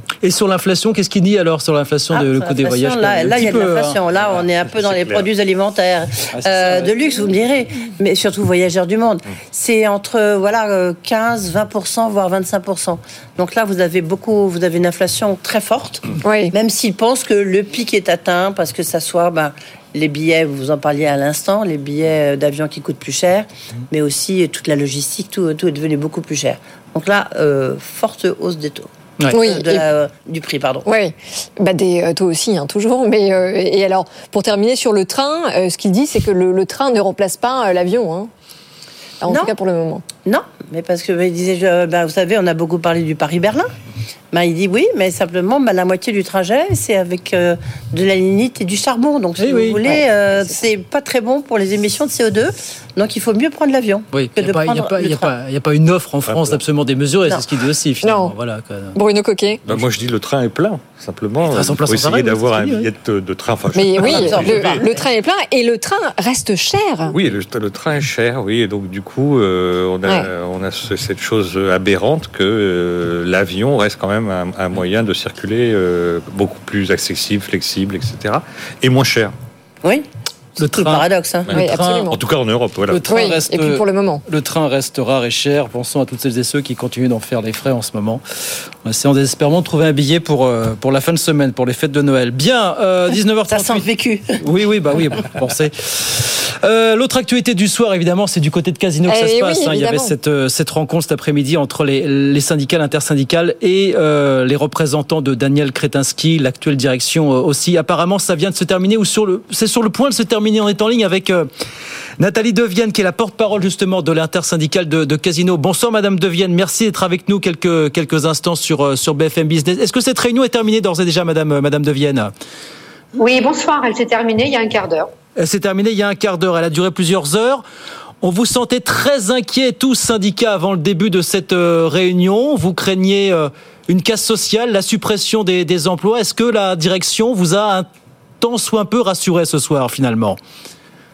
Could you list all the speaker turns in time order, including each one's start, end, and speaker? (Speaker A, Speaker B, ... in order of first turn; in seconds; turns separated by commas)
Speaker A: 0.2-4.4, Speaker B: 2.1-30.9, Speaker C: 4.7-5.3, Speaker A: 6.3-7.2, Speaker D: 16.2-16.6, Speaker D: 29.3-29.8, Speaker D: 30.9-38.3, Speaker D: 39.2-40.0, Speaker B: 39.3-39.5, Speaker B: 40.2-43.7, Speaker B: 44.3-55.3, Speaker A: 49.4-49.8, Speaker D: 49.9-50.6, Speaker A: 54.1-59.0, Speaker C: 56.3-56.6, Speaker D: 58.0-58.4, Speaker D: 59.0-59.6, Speaker C: 59.7-64.8, Speaker A: 61.5-62.9, Speaker D: 63.7-67.2, Speaker B: 64.0-65.1, Speaker C: 67.1-79.3, Speaker A: 80.6-82.1, Speaker B: 80.6-81.5, Speaker C: 81.5-83.2, Speaker D: 81.5-82.2, Speaker A: 82.9-88.2, Speaker D: 83.1-84.2, Speaker A: 88.8-93.9, Speaker B: 93.5-94.4, Speaker A: 94.4-111.5, Speaker D: 99.1-100.2, Speaker A: 112.2-122.3, Speaker E: 123.2-125.1, Speaker A: 125.4-127.6, Speaker A: 128.2-137.9, Speaker A: 138.4-140.4